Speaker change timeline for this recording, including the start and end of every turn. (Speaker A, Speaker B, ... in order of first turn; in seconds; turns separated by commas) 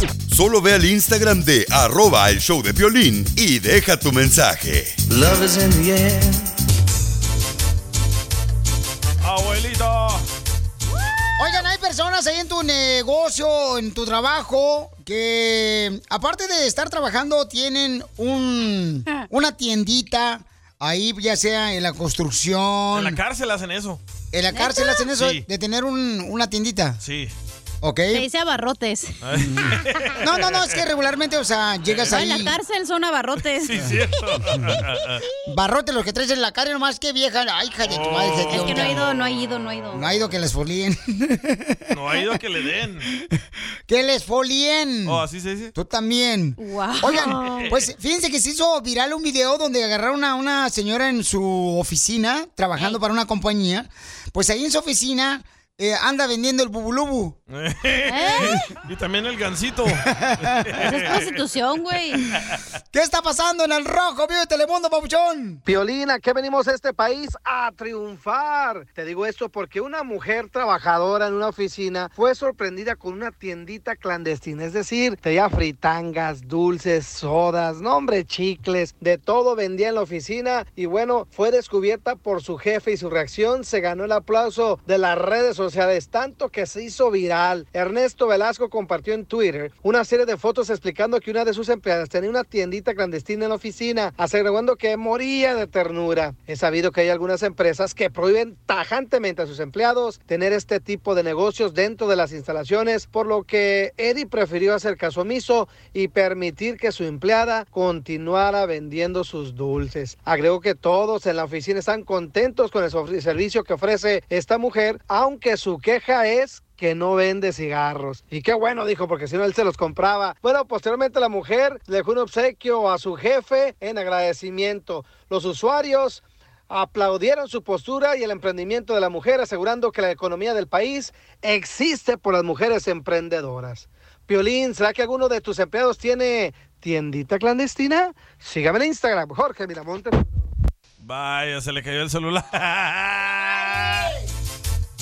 Speaker A: 0.3-5.0, Speaker B: 9.2-10.2, Speaker C: 11.4-23.2, Speaker B: 22.9-24.0, Speaker C: 24.3-27.0, Speaker D: 24.5-25.0, Speaker B: 25.1-25.4, Speaker B: 27.0-27.3, Speaker C: 27.8-28.3, Speaker D: 28.1-29.2, Speaker B: 29.2-30.7, Speaker C: 30.2-32.5, Speaker B: 31.9-32.3, Speaker D: 32.1-33.9, Speaker B: 33.5-35.2, Speaker C: 35.5-39.1, Speaker B: 37.8-39.1, Speaker D: 38.5-40.1, Speaker C: 39.9-41.8, Speaker B: 41.9-43.1, Speaker C: 43.9-45.2, Speaker B: 45.0-45.7, Speaker C: 45.7-57.4, Speaker D: 46.6-47.6, Speaker B: 47.4-47.8, Speaker B: 57.5-61.3, Speaker D: 58.1-58.6, Speaker C: 60.2-60.6, Speaker D: 60.8-62.2, Speaker C: 62.9-65.6, Speaker E: 65.7-140.3, Speaker B: 141.0-144.1